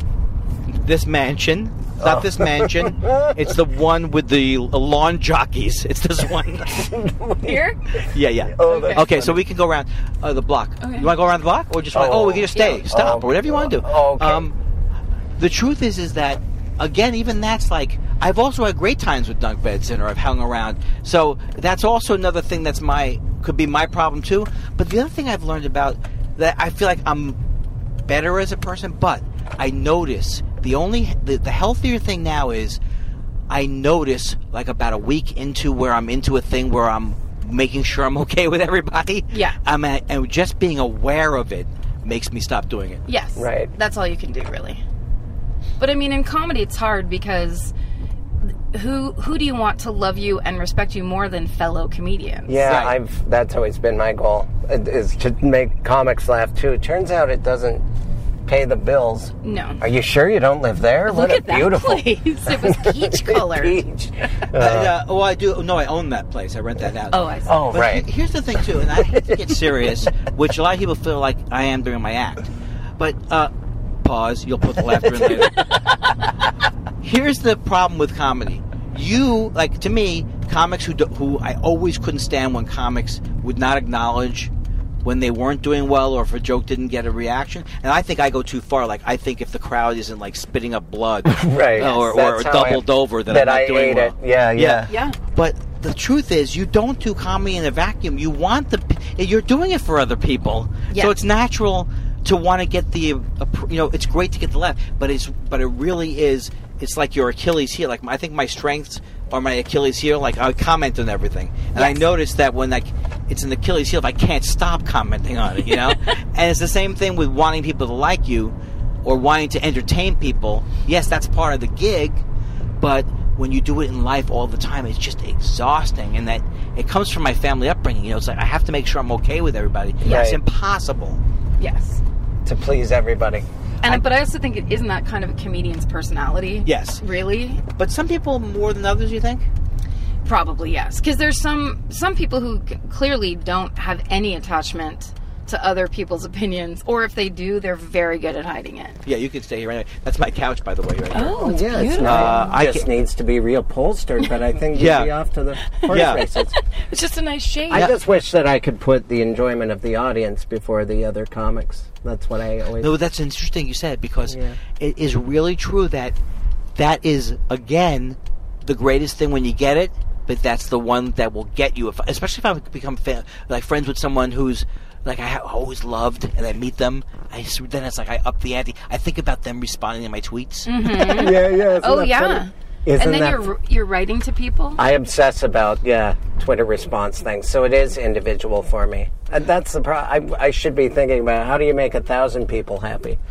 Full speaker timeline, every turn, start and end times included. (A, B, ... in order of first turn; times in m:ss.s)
0:00.7-0:07.0 A
0:02.0-0:03.3 B
0:06.8-0:07.6 B
0:07.4-0:08.0 C
0:08.0-0:14.5 A
0:08.5-0:09.4 B
0:08.6-0:09.0 C
0:10.8-0:11.1 C
0:11.9-0:14.5 B
0:15.4-0:27.4 A
0:28.1-0:32.8 A
0:33.5-0:43.0 A
0:39.3-0:39.6 C
0:43.1-0:44.8 C
0:43.4-0:43.7 B
0:45.8-0:47.7 C
0:48.7-0:52.7 C
0:52.5-0:57.8 B
0:52.6-0:53.0 A
0:58.5-1:05.0 B
0:59.4-0:59.8 C
1:01.1-1:03.8 C
1:04.5-1:13.5 A
1:07.1-1:07.6 C
1:07.5-1:08.1 B
1:09.0-1:09.2 B
1:14.0-1:15.6 A
1:15.5-1:15.9 C
1:17.0-1:24.5 A
1:25.0-2:02.2 A
1:31.2-1:34.9 B
1:31.8-1:32.1 C
1:34.9-1:35.2 C
1:40.9-1:41.2 C
1:51.8-1:52.0 C
2:02.8-2:11.2 A
2:10.0-2:10.3 C
2:10.0-2:10.4 B
2:11.6-2:12.0 C
2:12.4-2:14.0 B
2:13.8-2:17.6 C
2:16.6-2:17.0 A
2:17.8-2:19.5 A
2:20.2-2:29.0 C
2:29.0-2:32.9 A
2:31.1-2:32.5 C
2:31.4-2:36.5 B
2:34.8-2:35.1 A
2:35.9-2:36.2 A
2:36.6-2:37.9 C
2:37.7-2:42.9 B
2:42.8-2:46.2 A
2:44.3-2:44.6 B
2:46.8-3:00.7 A
3:00.7-3:04.8 C
3:00.9-3:03.5 B
3:04.8-3:13.2 B